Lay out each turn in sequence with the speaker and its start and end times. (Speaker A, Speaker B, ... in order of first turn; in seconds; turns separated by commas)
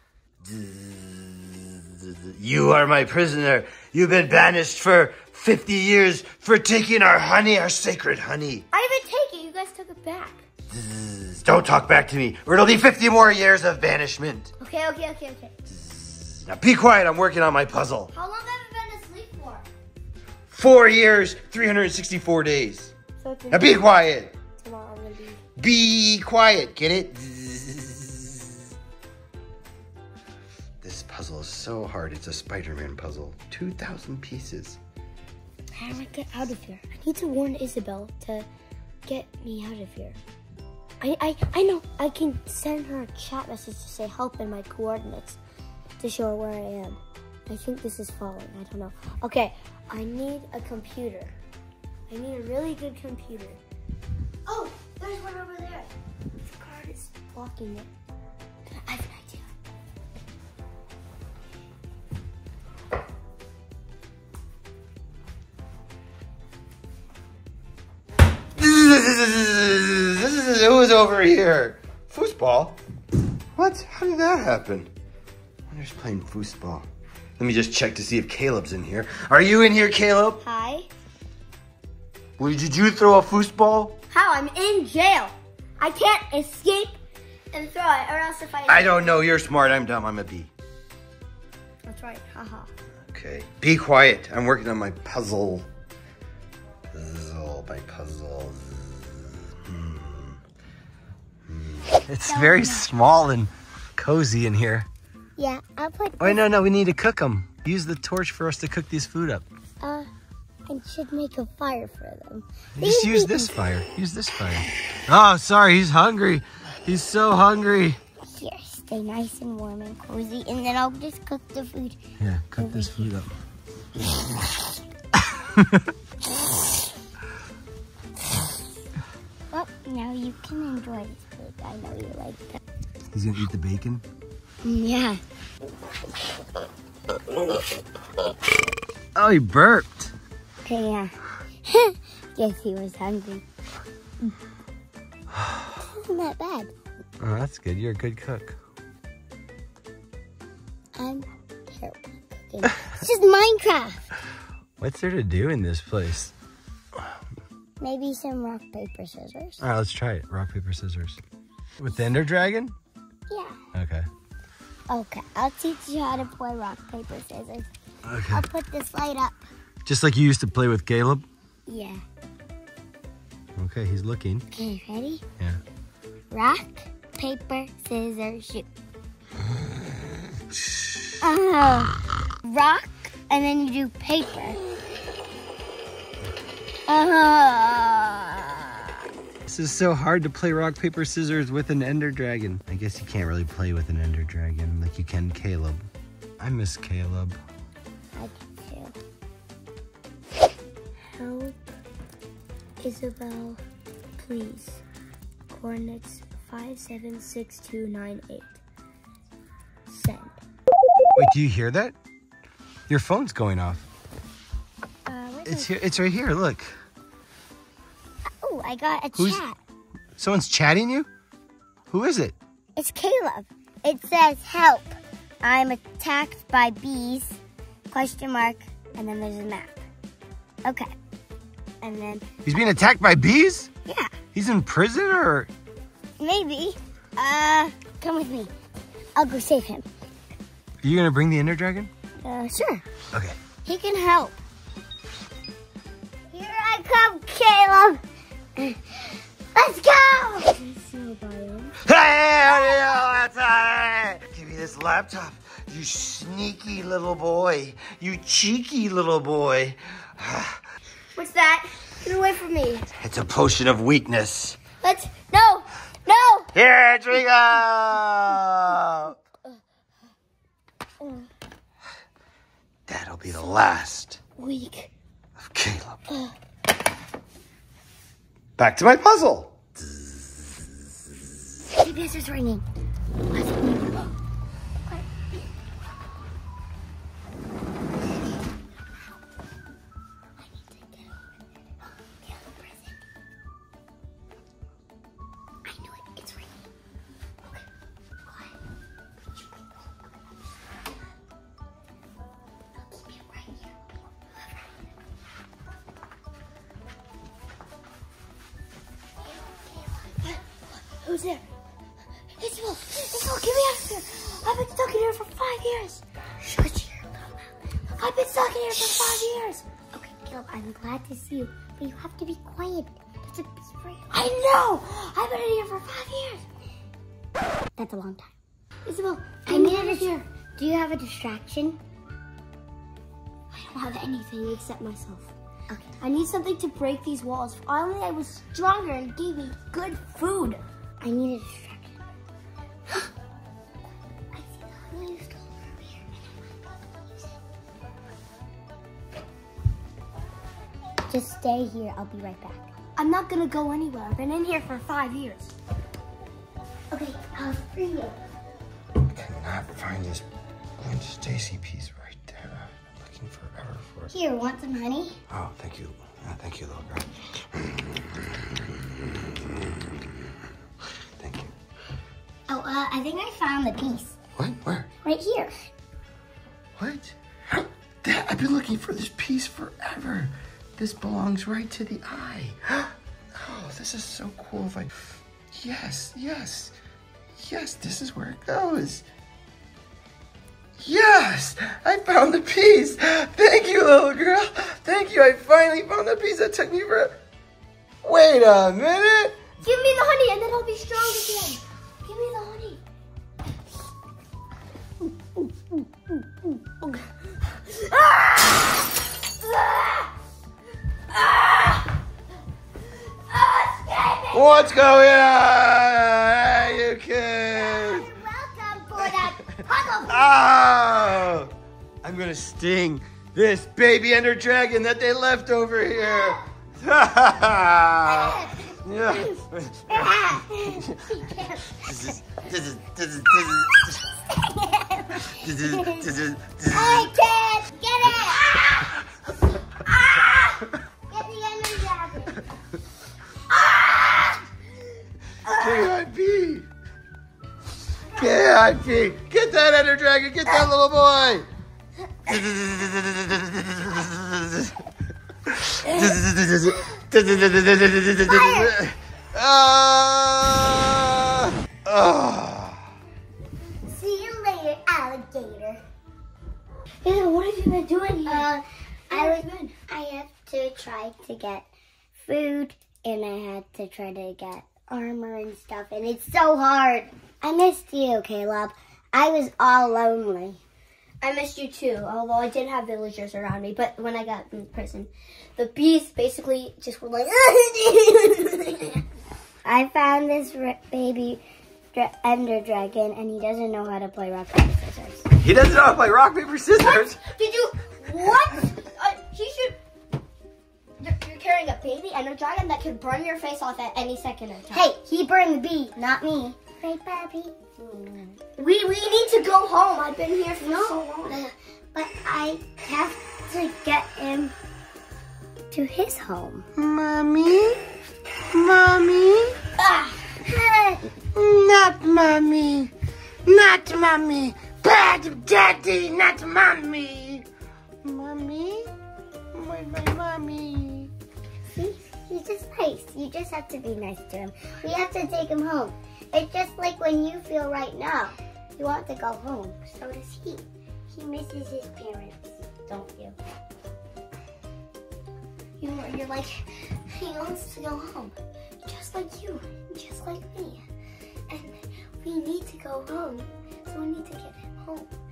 Speaker A: 0.4-8.7, Speaker B: 8.7-10.4, Speaker A: 10.7-14.5, Speaker B: 14.6-15.5, Speaker A: 15.7-18.1, Speaker B: 18.1-19.6, Speaker A: 20.5-22.9, Speaker B: 23.2-23.8, Speaker A: 23.5-24.3, Speaker B: 24.6-25.4, Speaker A: 25.6-28.6, Speaker A: 30.8-34.8, Speaker B: 35.7-38.5, Speaker B: 39.0-40.2, Speaker B: 41.0-45.4, Speaker B: 46.0-51.3, Speaker B: 52.1-53.6, Speaker B: 54.5-55.9, Speaker B: 56.4-57.9, Speaker B: 58.7-59.5, Speaker A: 68.5-72.8, Speaker A: 73.5-74.9, Speaker A: 75.7-76.9, Speaker A: 77.4-80.4, Speaker B: 80.4-80.9, Speaker A: 82.4-84.0, Speaker B: 84.1-86.9, Speaker B: 87.5-89.2, Speaker A: 88.7-90.5, Speaker B: 91.8-92.7, Speaker A: 93.1-95.7, Speaker A: 96.9-100.4, Speaker A: 101.5-104.9, Speaker C: 102.2-102.8, Speaker C: 105.4-106.4, Speaker A: 106.2-109.4, Speaker C: 109.8-110.1, Speaker C: 110.7-113.5, Speaker A: 112.8-118.0, Speaker C: 118.2-122.0, Speaker A: 122.2-123.3, Speaker C: 122.6-123.1, Speaker A: 125.1-125.9, Speaker C: 129.5-132.6, Speaker A: 133.1-134.0, Speaker C: 134.6-135.2, Speaker A: 139.1-140.1, Speaker C: 140.6-143.4, Speaker A: 145.3-145.7, Speaker C: 145.8-146.7, Speaker A: 147.2-148.6, Speaker C: 150.9-154.0, Speaker A: 154.8-156.3, Speaker C: 157.8-159.6, Speaker A: 159.6-161.2, Speaker A: 161.8-162.8, Speaker C: 163.3-163.6, Speaker A: 163.7-164.1, Speaker C: 164.9-167.7, Speaker A: 168.0-168.4, Speaker C: 168.3-169.4, Speaker A: 169.8-171.2, Speaker C: 171.7-172.0, Speaker A: 173.6-174.4, Speaker C: 174.5-175.2, Speaker C: 176.3-178.7, Speaker A: 180.5-181.0, Speaker C: 181.2-184.6, Speaker C: 186.9-188.7, Speaker A: 189.4-195.8, Speaker A: 196.4-197.4, Speaker C: 198.1-198.9, Speaker B: 201.1-201.7, Speaker B: 202.8-203.6, Speaker B: 204.2-204.8, Speaker B: 205.5-208.6, Speaker B: 209.9-210.4, Speaker A: 211.2-211.9, Speaker A: 212.9-213.8, Speaker C: 215.1-215.7, Speaker A: 215.4-216.7, Speaker C: 218.4-219.6, Speaker A: 220.2-221.1, Speaker A: 221.9-222.3, Speaker C: 222.8-227.4, Speaker C: 227.9-229.8, Speaker C: 230.6-230.9, Speaker C: 231.8-232.2, Speaker A: 232.4-233.7, Speaker C: 233.8-234.1, Speaker A: 234.3-235.5, Speaker C: 236.2-238.5, Speaker C: 239.2-239.9, Speaker A: 240.8-241.9, Speaker C: 242.2-242.8, Speaker A: 243.1-243.4, Speaker C: 243.6-244.3, Speaker C: 246.3-248.0, Speaker C: 248.6-251.7, Speaker A: 251.8-260.6, Speaker B: 261.1-262.9, Speaker A: 263.0-264.6, Speaker B: 264.8-266.5, Speaker A: 266.5-269.2, Speaker A: 272.9-274.2, Speaker B: 274.4-274.9, Speaker A: 275.4-276.0, Speaker A: 278.6-279.5, Speaker C: 281.7-282.6, Speaker C: 283.3-284.1, Speaker C: 290.4-291.1, Speaker C: 292.2-292.9, Speaker C: 295.6-296.7, Speaker C: 298.2-298.5, Speaker C: 299.3-299.9, Speaker C: 302.8-304.1, Speaker B: 311.0-311.4, Speaker C: 312.4-313.5, Speaker B: 312.7-316.0, Speaker C: 316.4-317.5, Speaker B: 317.9-319.6, Speaker C: 318.7-319.3, Speaker C: 319.9-324.1, Speaker B: 324.1-326.4, Speaker C: 327.8-328.3, Speaker B: 328.8-330.2, Speaker C: 329.4-331.8, Speaker B: 333.5-335.3, Speaker B: 336.0-340.6, Speaker C: 341.0-342.0, Speaker B: 344.9-345.4, Speaker C: 345.5-345.9, Speaker C: 351.1-352.7, Speaker B: 352.9-355.5, Speaker C: 356.9-358.2, Speaker A: 359.0-360.2, Speaker A: 360.8-364.1, Speaker C: 364.1-365.2, Speaker A: 365.3-369.2, Speaker A: 371.2-371.5, Speaker C: 372.5-374.2, Speaker A: 374.4-374.9, Speaker C: 375.0-375.5, Speaker A: 376.8-386.7, Speaker A: 387.3-389.0, Speaker A: 390.8-397.2, Speaker A: 398.0-399.4, Speaker B: 399.6-402.8, Speaker B: 407.7-408.6, Speaker B: 409.6-410.0, Speaker B: 411.2-411.8, Speaker C: 413.6-414.7, Speaker A: 414.3-418.1, Speaker C: 417.5-420.2, Speaker A: 419.0-431.0, Speaker C: 426.0-426.4, Speaker C: 428.1-428.7, Speaker C: 429.9-431.9, Speaker A: 431.8-434.0, Speaker C: 434.3-436.1, Speaker A: 435.3-437.1, Speaker C: 436.7-438.9, Speaker C: 439.9-442.4, Speaker C: 443.6-444.4, Speaker A: 445.5-446.7, Speaker A: 448.1-451.5, Speaker A: 452.2-454.8, Speaker A: 455.4-462.9, Speaker C: 458.3-458.7, Speaker C: 463.9-465.8, Speaker B: 467.0-468.5, Speaker C: 468.2-471.6, Speaker B: 469.1-469.7, Speaker C: 472.2-480.6, Speaker B: 481.2-489.0, Speaker C: 489.6-491.4, Speaker C: 491.9-495.3, Speaker A: 495.4-497.2, Speaker B: 496.8-499.8, Speaker B: 501.0-504.9, Speaker C: 504.7-508.3, Speaker B: 508.6-511.4, Speaker C: 510.6-514.5, Speaker C: 515.7-516.6, Speaker A: 516.7-517.8, Speaker A: 518.4-519.5, Speaker C: 519.9-521.1, Speaker A: 521.3-522.9, Speaker A: 523.4-527.5, Speaker A: 528.0-528.9, Speaker A: 529.5-531.1, Speaker C: 531.7-542.6, Speaker B: 542.9-543.3, Speaker B: 545.8-548.3, Speaker B: 548.8-550.8, Speaker B: 552.2-555.1